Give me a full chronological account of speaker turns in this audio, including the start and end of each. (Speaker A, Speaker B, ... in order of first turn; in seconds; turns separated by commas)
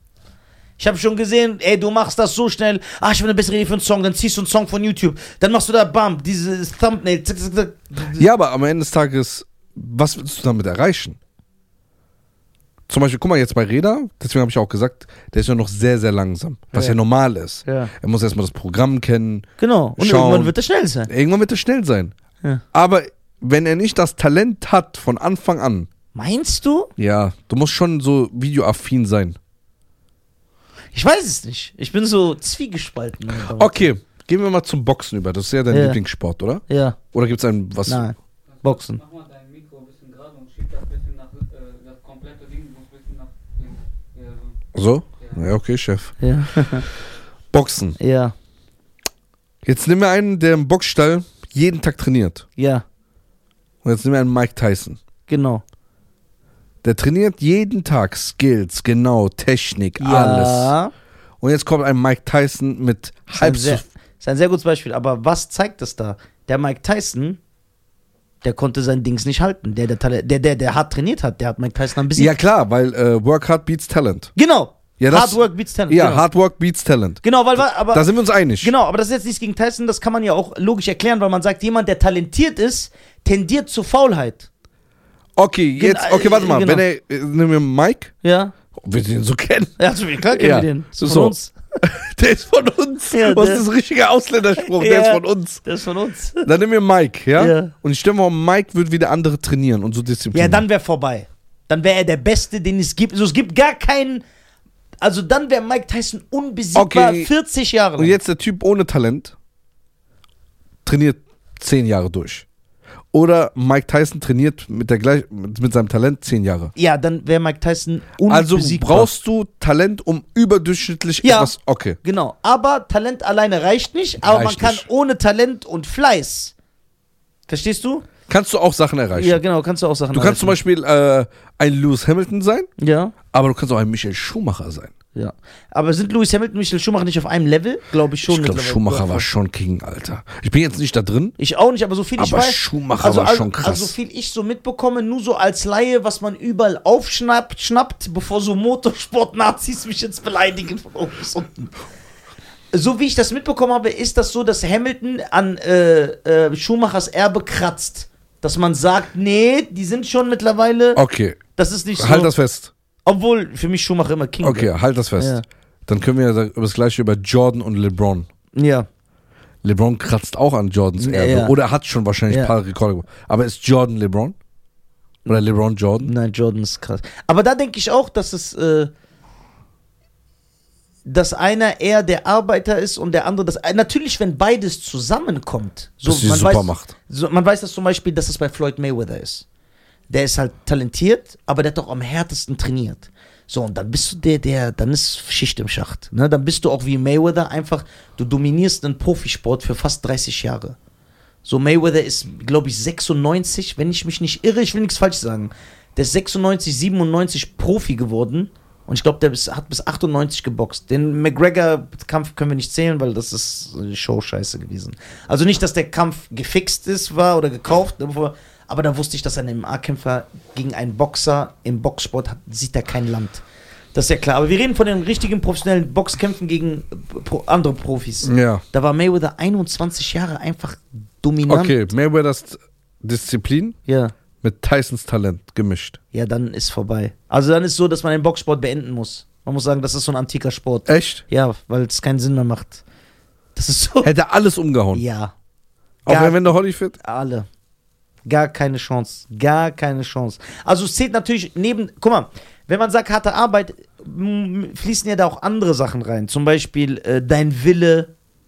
Speaker A: 0.8-8.3, Speaker B: 8.2-11.2, Speaker B: 12.9-20.5, Speaker A: 17.6-17.9, Speaker A: 19.6-21.1, Speaker B: 21.1-22.1, Speaker B: 22.7-25.9, Speaker A: 26.1-26.9, Speaker B: 27.0-29.4, Speaker A: 30.9-33.9, Speaker B: 33.5-38.0, Speaker A: 35.7-36.0, Speaker A: 36.7-37.0, Speaker A: 37.9-39.0, Speaker C: 38.5-44.6, Speaker B: 44.8-46.7, Speaker C: 45.2-45.5, Speaker A: 46.2-46.9, Speaker B: 47.5-48.0, Speaker A: 48.0-48.4, Speaker B: 49.6-52.5, Speaker A: 52.6-52.8, Speaker B: 53.8-55.0, Speaker A: 55.3-55.6, Speaker B: 56.8-60.8, Speaker A: 60.0-60.9, Speaker B: 61.4-63.9, Speaker A: 63.3-67.4, Speaker A: 68.4-72.3, Speaker B: 72.1-74.3, Speaker A: 74.4-76.2, Speaker B: 75.0-78.7, Speaker A: 77.2-78.1, Speaker A: 78.6-84.5, Speaker B: 85.4-88.1, Speaker A: 85.8-86.8, Speaker A: 88.2-88.5, Speaker B: 88.8-89.8, Speaker A: 89.8-91.5, Speaker B: 90.3-95.6, Speaker A: 93.1-93.7, Speaker A: 94.6-96.5, Speaker B: 96.4-100.6, Speaker A: 97.4-97.7, Speaker A: 100.3-104.2, Speaker A: 105.0-108.2, Speaker B: 106.8-107.3, Speaker B: 108.0-109.3, Speaker B: 110.8-112.5, Speaker B: 113.1-116.7, Speaker A: 116.8-119.1, Speaker B: 118.3-122.0, Speaker A: 121.2-126.5, Speaker B: 124.2-124.9, Speaker A: 127.5-128.1, Speaker B: 128.3-129.4, Speaker A: 129.1-130.6, Speaker B: 130.1-132.7, Speaker A: 132.8-133.2, Speaker B: 133.3-134.9, Speaker A: 135.2-139.3, Speaker B: 138.3-141.4, Speaker A: 141.4-151.7, Speaker B: 142.2-143.9, Speaker A: 152.7-161.0, Speaker B: 160.9-161.4, Speaker A: 161.6-162.3, Speaker B: 162.0-162.7, Speaker A: 163.1-165.4, Speaker B: 164.4-168.3, Speaker A: 168.5-168.9, Speaker B: 169.6-174.4, Speaker A: 171.0-171.5, Speaker B: 175.3-176.1, Speaker A: 176.0-178.9, Speaker A: 181.1-189.4, Speaker B: 186.1-186.9, Speaker A: 190.1-200.8, Speaker A: 201.4-231.9, Speaker B: 228.2-228.6, Speaker B: 231.5-233.8, Speaker A: 233.9-234.1, Speaker B: 234.4-236.0, Speaker A: 236.1-242.8, Speaker B: 240.9-241.2, Speaker A: 243.6-244.1, Speaker B: 244.0-245.0, Speaker A: 244.9-245.3, Speaker B: 246.1-247.0, Speaker A: 246.1-247.5, Speaker A: 248.3-258.1